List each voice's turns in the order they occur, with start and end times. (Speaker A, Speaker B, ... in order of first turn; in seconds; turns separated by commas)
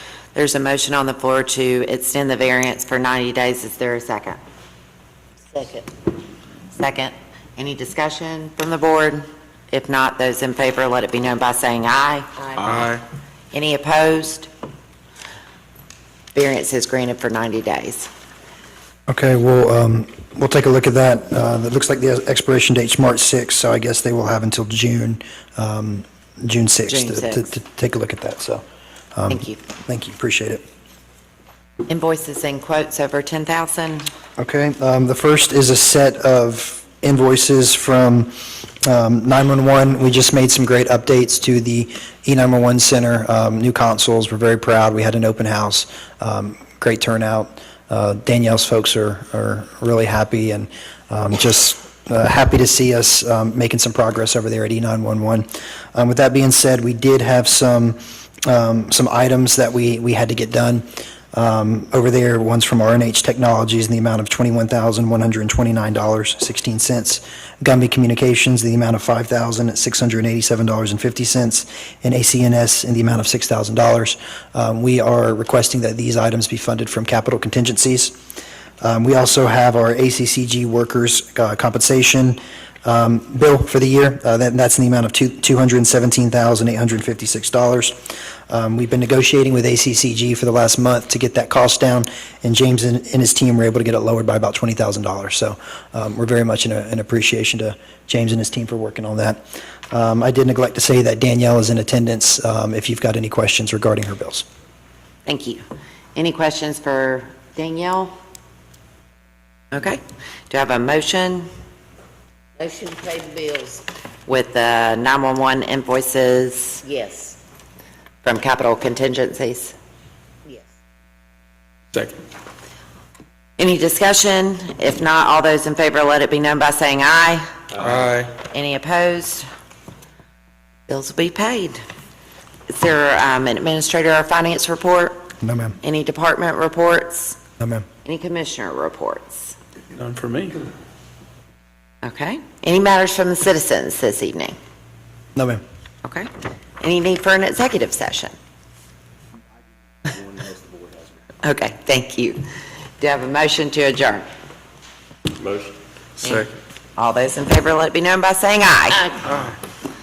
Speaker A: 0.3-4.4, Speaker B: 5.5-5.8, Speaker A: 6.7-12.4, Speaker C: 12.6-13.0, Speaker A: 13.5-14.5, Speaker A: 16.3-18.1, Speaker D: 19.1-30.6, Speaker A: 26.9-27.5, Speaker A: 29.3-29.6, Speaker A: 31.9-34.1, Speaker D: 34.4-78.2, Speaker D: 78.8-104.4, Speaker A: 105.2-105.6, Speaker A: 106.1-108.1, Speaker A: 109.7-111.5, Speaker B: 112.6-113.8, Speaker A: 114.2-116.8, Speaker B: 116.8-117.4, Speaker A: 118.2-119.7, Speaker C: 121.9-122.2, Speaker A: 123.6-127.4, Speaker C: 127.8-128.3, Speaker A: 128.5-129.4, Speaker A: 130.9-131.8, Speaker A: 132.7-135.3, Speaker D: 135.4-135.8, Speaker A: 135.8-137.4, Speaker D: 137.6-137.8, Speaker A: 138.0-139.6, Speaker C: 139.9-140.7, Speaker A: 142.0-144.6, Speaker D: 145.3-145.6, Speaker A: 146.0-146.3, Speaker A: 146.8-148.3, Speaker A: 151.4-152.4, Speaker A: 153.0-154.3, Speaker A: 156.2-159.2